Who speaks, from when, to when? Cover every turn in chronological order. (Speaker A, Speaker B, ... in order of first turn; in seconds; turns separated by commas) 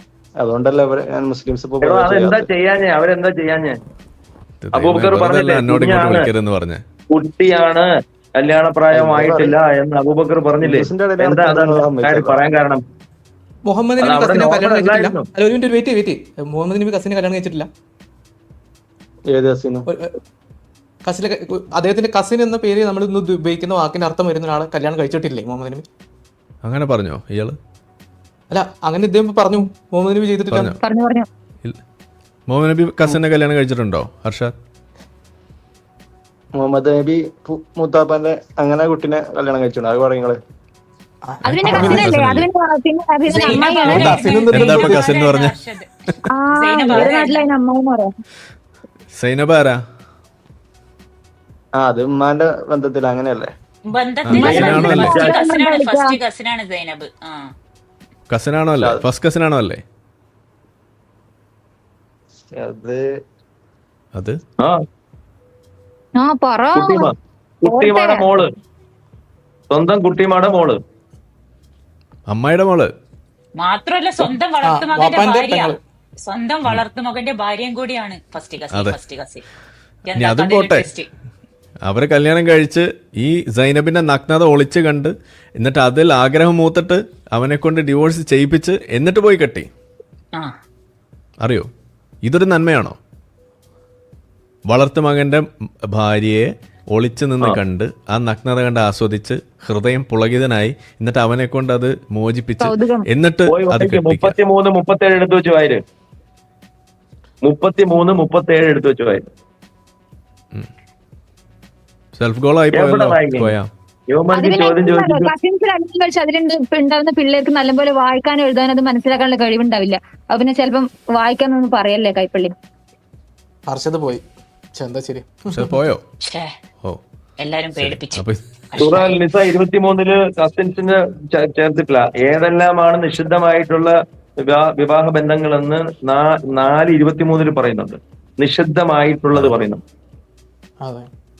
Speaker A: 0.4-2.5, Speaker B: 1.8-3.8, Speaker C: 4.6-6.8, Speaker B: 4.7-6.3, Speaker B: 7.1-7.9, Speaker B: 8.4-12.8, Speaker A: 8.9-9.6, Speaker A: 10.6-12.4, Speaker D: 13.7-17.7, Speaker B: 14.0-15.3, Speaker A: 19.3-19.9, Speaker D: 19.9-20.2, Speaker D: 21.1-25.9, Speaker C: 26.6-27.6, Speaker D: 28.5-30.8, Speaker C: 30.5-30.8, Speaker E: 30.8-31.3, Speaker C: 32.5-34.5, Speaker A: 36.6-40.4, Speaker D: 41.3-42.1, Speaker C: 41.5-42.5, Speaker E: 41.5-44.3, Speaker D: 43.3-45.1, Speaker F: 43.5-45.9, Speaker C: 44.0-45.6, Speaker E: 46.3-48.1, Speaker F: 46.6-47.5, Speaker C: 49.1-49.8, Speaker A: 51.8-53.5, Speaker F: 53.9-57.5, Speaker C: 54.2-55.3, Speaker B: 54.3-55.4, Speaker E: 54.4-56.2, Speaker C: 58.3-59.8, Speaker A: 58.8-59.1, Speaker A: 62.6-63.0, Speaker E: 66.2-67.1, Speaker B: 66.7-68.5, Speaker E: 67.6-68.2, Speaker B: 69.7-70.8, Speaker C: 72.3-72.9, Speaker F: 73.6-75.7, Speaker D: 74.6-75.8, Speaker F: 76.3-79.5, Speaker C: 78.7-79.0, Speaker F: 80.1-81.1, Speaker C: 80.1-80.9, Speaker C: 81.8-89.7, Speaker C: 91.4-91.7, Speaker C: 92.2-93.0, Speaker C: 94.7-104.4, Speaker E: 102.6-103.1, Speaker B: 103.5-105.8, Speaker B: 107.5-109.3, Speaker C: 112.2-113.7, Speaker B: 112.7-113.5, Speaker B: 114.1-115.3, Speaker E: 114.3-122.5, Speaker D: 123.7-124.2, Speaker D: 124.8-125.8, Speaker C: 125.5-126.0, Speaker F: 126.2-126.5, Speaker F: 127.4-129.2, Speaker C: 127.8-128.4, Speaker B: 128.8-139.8, Speaker C: 139.3-139.6, Speaker D: 140.8-141.1